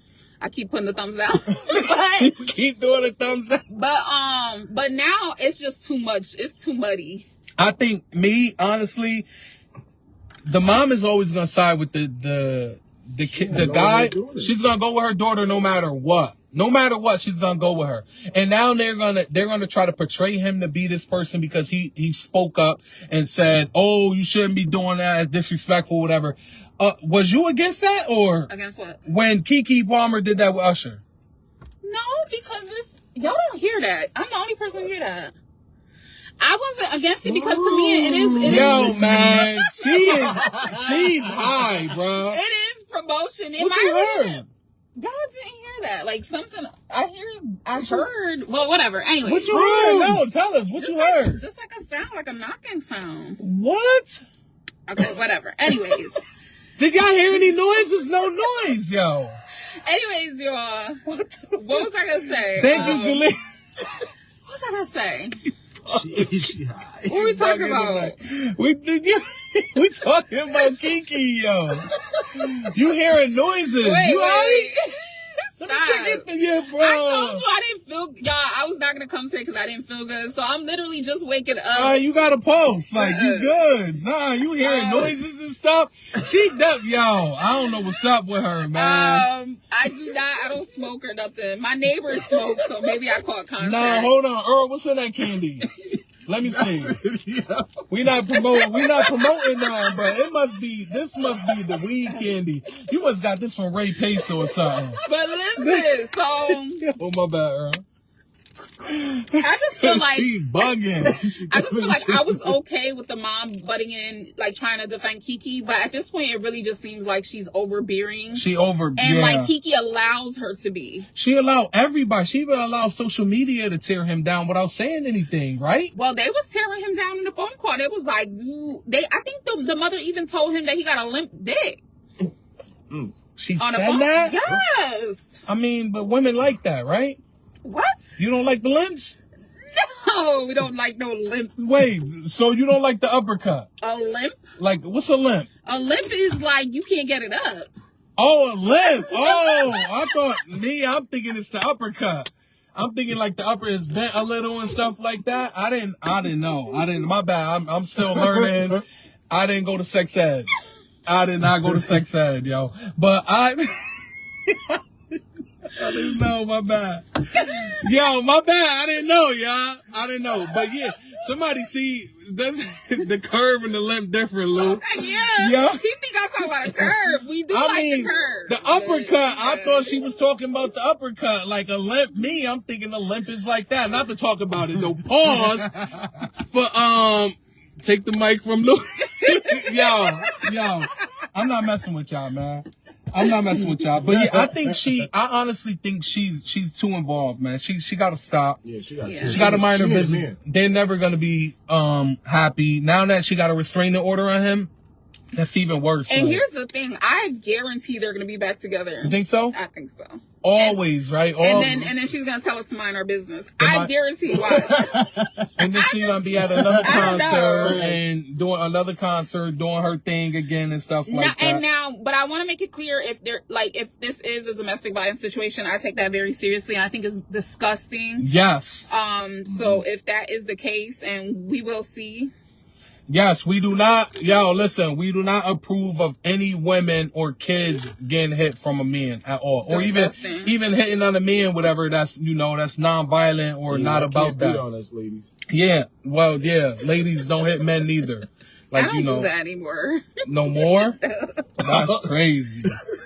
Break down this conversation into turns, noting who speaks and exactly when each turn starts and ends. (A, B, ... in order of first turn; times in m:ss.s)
0:00.4-0:02.3 A
0:01.7-0:03.6 B
0:03.7-0:07.2 A
0:07.6-0:09.3 B
0:10.4-0:28.5 B
0:13.2-0:14.5 C
0:28.5-0:29.0 A
0:29.0-0:31.0 B
0:31.8-0:35.3 A
0:36.4-0:40.3 A
0:37.2-0:39.5 C
0:38.4-0:42.4 B
0:40.4-0:40.9 C
0:42.3-0:44.4 A
0:43.6-0:44.4 B
0:45.0-0:49.6 A
0:49.2-0:51.4 B
0:49.5-0:50.1 C
0:50.7-0:53.4 A
0:53.4-0:54.2 B
0:54.9-0:56.2 A
0:56.8-0:59.4 B
0:59.8-1:01.0 A
1:01.0-1:01.9 B
1:01.6-1:03.2 A
1:02.6-1:03.4 B
1:04.4-1:05.4 A
1:05.8-1:07.2 C
1:07.1-1:14.7 B
1:07.1-1:08.2 A
1:13.8-1:14.8 A
1:15.4-1:22.0 A
1:15.6-1:17.4 B
1:21.7-1:29.3 B
1:22.9-1:23.5 A
1:24.6-1:25.1 A
1:28.7-1:34.1 A
1:33.6-1:35.7 B
1:36.2-1:37.0 B
1:36.4-1:38.4 C
1:37.9-1:45.0 B
1:38.7-1:39.2 A
1:45.0-1:46.8 A
1:45.6-1:47.8 B
1:48.8-1:51.1 B
1:49.4-1:50.4 A
1:50.6-1:52.5 C
1:51.5-2:01.0 A
1:58.3-1:59.5 B
2:01.1-2:05.9 B
2:05.9-2:11.8 A
2:13.4-2:14.4 B
2:13.6-2:15.4 A
2:15.4-2:17.2 B
2:17.6-2:18.2 A
2:18.2-2:19.2 B
2:19.7-2:21.5 A
2:21.6-2:23.7 B
2:23.8-2:24.4 A
2:24.6-2:25.5 B
2:25.6-2:27.7 A
2:28.2-2:40.5 B
2:28.8-2:30.2 A
2:41.0-2:44.8 B
2:45.7-2:54.8 B
2:54.8-2:59.9 A
2:55.4-2:55.8 B
2:57.5-3:18.6 B
3:05.8-3:06.2 C
3:09.2-3:10.3 A
3:14.1-3:14.8 C
3:18.6-3:20.4 C
3:19.0-3:19.5 A
3:19.2-3:24.7 B
3:25.3-3:26.4 B
3:26.1-3:30.8 A
3:29.0-3:29.6 B
3:30.4-3:31.9 B
3:31.4-3:35.0 A
3:33.6-3:33.9 B
3:34.4-3:35.4 C
3:35.6-3:41.6 B
3:35.7-3:36.2 A
3:36.5-3:38.0 C
3:36.8-3:37.8 A
3:41.1-3:48.3 A
3:48.2-3:48.9 B
3:48.9-3:52.3 A
3:49.4-3:49.8 C
3:53.1-4:04.6 B
3:59.6-4:00.5 A
4:03.7-4:05.3 C
4:05.5-4:09.3 B
4:08.7-4:11.5 A
4:10.2-4:11.0 B
4:11.6-4:12.8 B
4:11.7-4:12.0 C